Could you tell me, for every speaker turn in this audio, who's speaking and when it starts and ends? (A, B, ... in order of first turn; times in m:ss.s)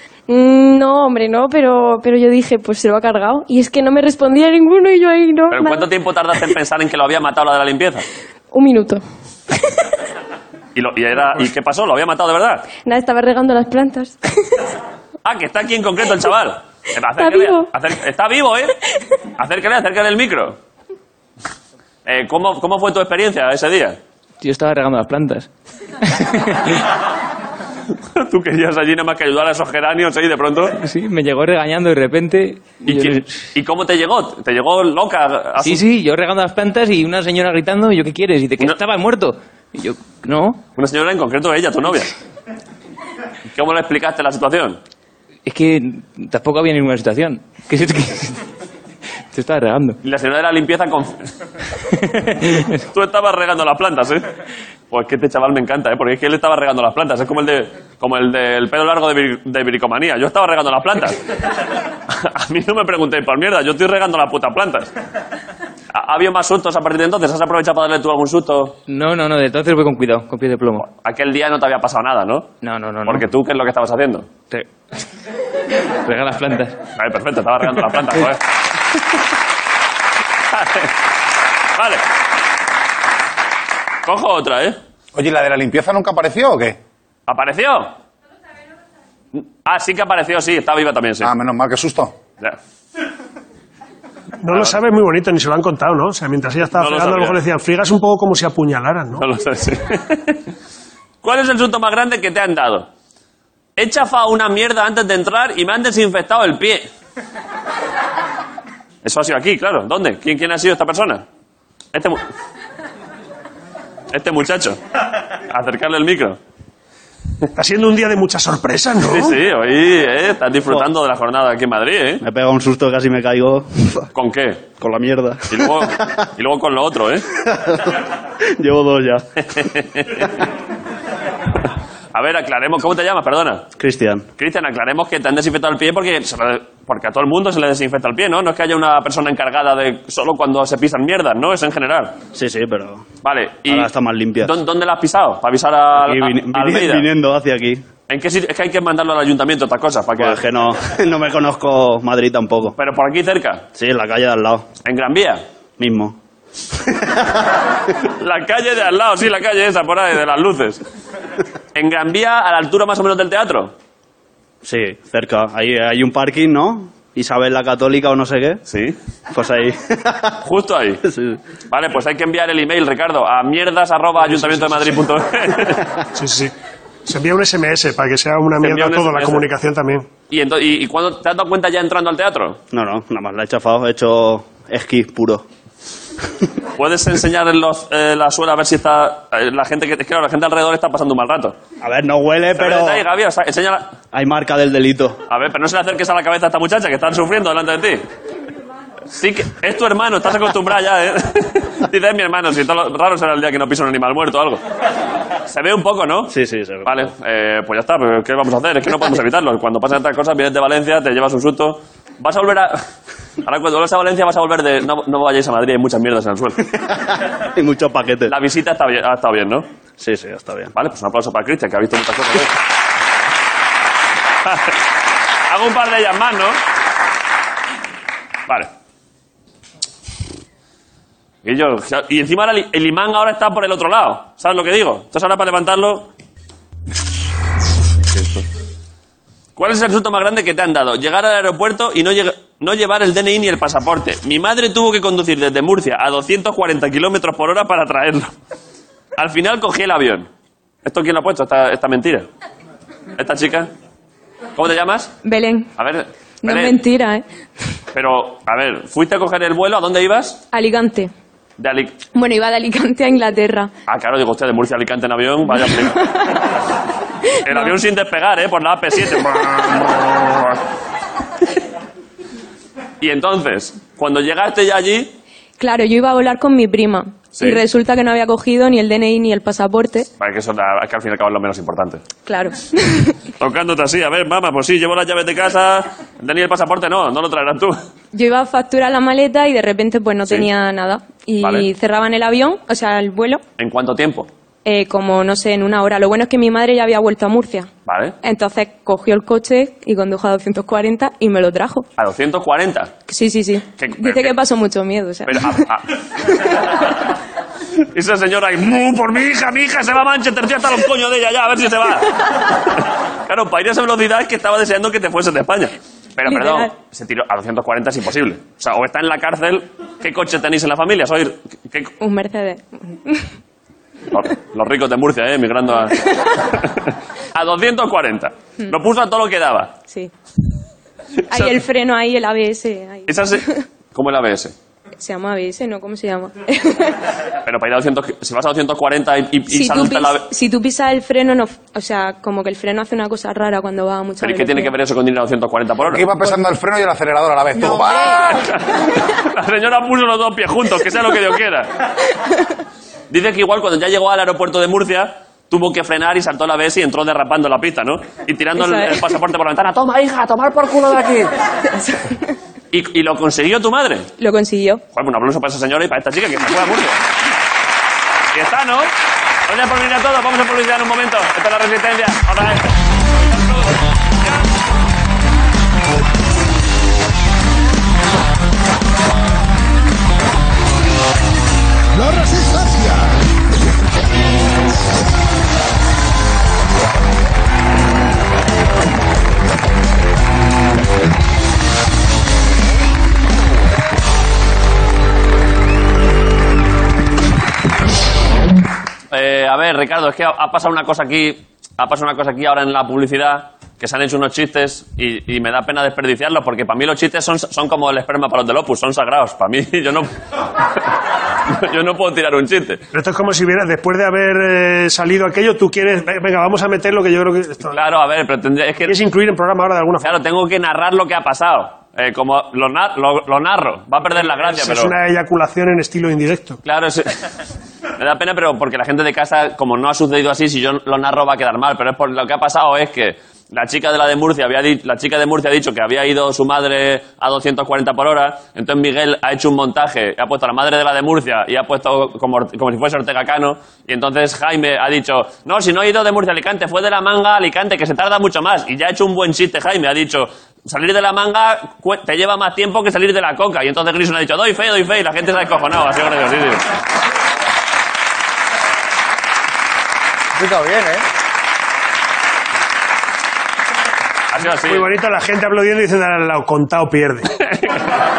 0:00.3-0:05.9 A
0:05.5-0:08.1 B
0:08.5-0:09.0 A
0:09.6-0:09.9 A
0:10.8-0:12.7 B
0:12.8-0:14.7 A
0:15.2-0:18.8 B
0:17.2-0:17.7 A
0:19.4-0:20.6 B
0:22.1-0:24.0 B
0:24.4-0:25.5 C
0:26.0-0:26.8 C
0:28.1-0:30.8 B
0:30.8-0:33.4 C
0:32.9-0:35.8 B
0:35.6-0:40.6 C
0:40.8-0:42.1 B
0:43.5-0:44.8 B
0:45.4-0:48.4 C
0:49.3-0:50.0 C
0:50.0-0:51.3 B
0:52.0-0:52.8 C
0:52.9-0:54.2 B
0:54.9-1:01.3 B
1:02.1-1:04.9 B
1:05.9-1:08.8 B
1:08.9-1:10.9 C
1:10.8-1:12.5 B
1:12.6-1:13.2 C
1:13.0-1:14.3 B
1:16.0-1:16.8 C
1:17.0-1:18.4 B
1:20.5-1:21.0 B
1:21.8-1:22.0 B
1:24.0-1:24.8 B
1:25.1-1:26.8 D
1:27.3-1:27.9 B
1:29.3-1:31.3 B
1:31.2-1:32.1 D
1:34.4-1:39.2 E
1:34.5-1:34.8 B
1:36.7-1:37.4 B
1:39.2-1:40.5 B
1:41.2-1:42.9 B
1:43.8-1:46.9 B
1:49.0-1:51.2 B
1:51.9-1:52.2 B
1:54.1-1:54.8 B
1:55.3-1:56.4 B
1:57.6-1:59.4 E
1:59.1-2:02.2 B
2:02.2-2:04.1 F
2:04.1-2:04.7 B
2:04.8-2:06.1 F
2:05.5-2:07.3 B
2:07.3-2:09.6 F
2:09.4-2:10.4 B
2:12.1-2:13.7 B
2:13.8-2:14.3 F
2:14.4-2:22.2 B
2:22.3-2:23.0 F
2:23.2-2:23.9 B
2:23.7-2:24.5 F
2:24.4-2:27.1 B
2:26.0-2:27.8 F
2:28.1-2:30.4 B
2:30.2-2:32.8 F
2:32.8-2:33.6 B
2:33.8-2:34.7 F
2:34.8-2:35.4 B
2:35.8-2:36.2 F
2:36.8-2:37.4 F
2:38.0-2:40.8 B
2:41.8-2:43.7 B
2:44.6-2:48.6 F
2:48.7-2:49.0 B
2:49.3-2:50.4 F
2:50.4-2:51.0 B
2:51.0-2:51.4 F
2:51.7-2:55.9 B
2:54.4-2:54.7 E
2:56.2-2:56.5 E
2:57.1-3:00.1 E
2:58.6-2:59.5 B
3:00.3-3:02.6 B
3:02.7-3:05.4 F
3:06.8-3:11.6 B
3:11.8-3:13.1 F
3:12.6-3:13.9 B
3:14.1-3:15.2 F
3:15.3-3:18.0 B
3:19.1-3:24.6 B
3:25.5-3:26.3 B
3:26.3-3:27.1 F
3:26.8-3:32.8 B
3:33.4-3:36.7 B
3:36.9-3:38.3 F
3:38.3-3:39.6 B
3:40.0-3:40.7 F
3:40.7-3:42.5 B
3:44.4-3:44.8 B
3:45.5-3:46.6 B
3:51.4-3:56.1 B
3:58.1-3:58.5 B
3:59.6-4:08.3 B
4:09.2-4:10.3 B
4:10.8-4:12.3 B
4:13.2-4:13.7 B
4:14.6-4:15.1 B
4:15.2-4:15.7 A
4:15.8-4:16.8 B
4:16.4-4:17.2 A
4:17.9-4:20.4 B
4:20.5-4:21.1 A
4:21.6-4:22.0 B
4:22.1-4:23.7 A
4:23.9-4:26.1 B
4:25.7-4:26.4 A
4:27.3-4:27.8 A
4:27.4-4:30.6 B
4:33.0-4:35.1 B
4:35.6-4:40.1 A
4:37.4-4:37.6 B
4:40.2-4:42.0 B
4:42.3-4:43.2 A
4:43.4-4:47.8 B
4:48.1-4:53.4 A
4:51.4-4:51.7 B
4:53.6-4:54.3 B
4:54.6-4:57.7 A
4:57.9-4:58.2 B
4:58.2-5:01.9 A
5:02.0-5:02.9 B
5:03.1-5:05.7 A
5:03.8-5:04.4 B
5:05.3-5:06.7 B
5:06.2-5:06.6 A
5:07.8-5:21.9 B
5:16.3-5:16.7 A
5:22.0-5:23.3 A
5:24.1-5:29.8 B
5:31.3-5:31.6 B
5:31.3-5:33.6 A
5:33.1-5:34.5 B
5:35.0-5:37.1 A
5:37.4-5:40.3 B
5:39.5-5:44.7 A
5:44.2-5:46.1 B
5:45.9-5:48.3 D
5:47.6-5:48.4 A
5:48.1-5:51.7 B
5:53.1-6:01.3 B
5:58.6-5:59.1 A
6:01.8-6:02.2 A
6:02.7-6:04.1 B
6:04.2-6:04.8 A
6:04.9-6:07.0 B
6:08.3-6:08.9 B
6:09.5-6:14.6 B
6:39.1-6:50.1 B
6:51.5-6:52.9 B
6:52.9-6:57.8 E
6:57.7-6:59.0 B
6:58.9-7:00.2 E
7:00.0-7:04.9 B
7:04.2-7:06.6 E
7:06.6-7:07.3 B
7:08.0-7:36.7 B
7:44.3-7:44.9 B
7:44.5-7:47.3 E
7:47.4-7:47.8 B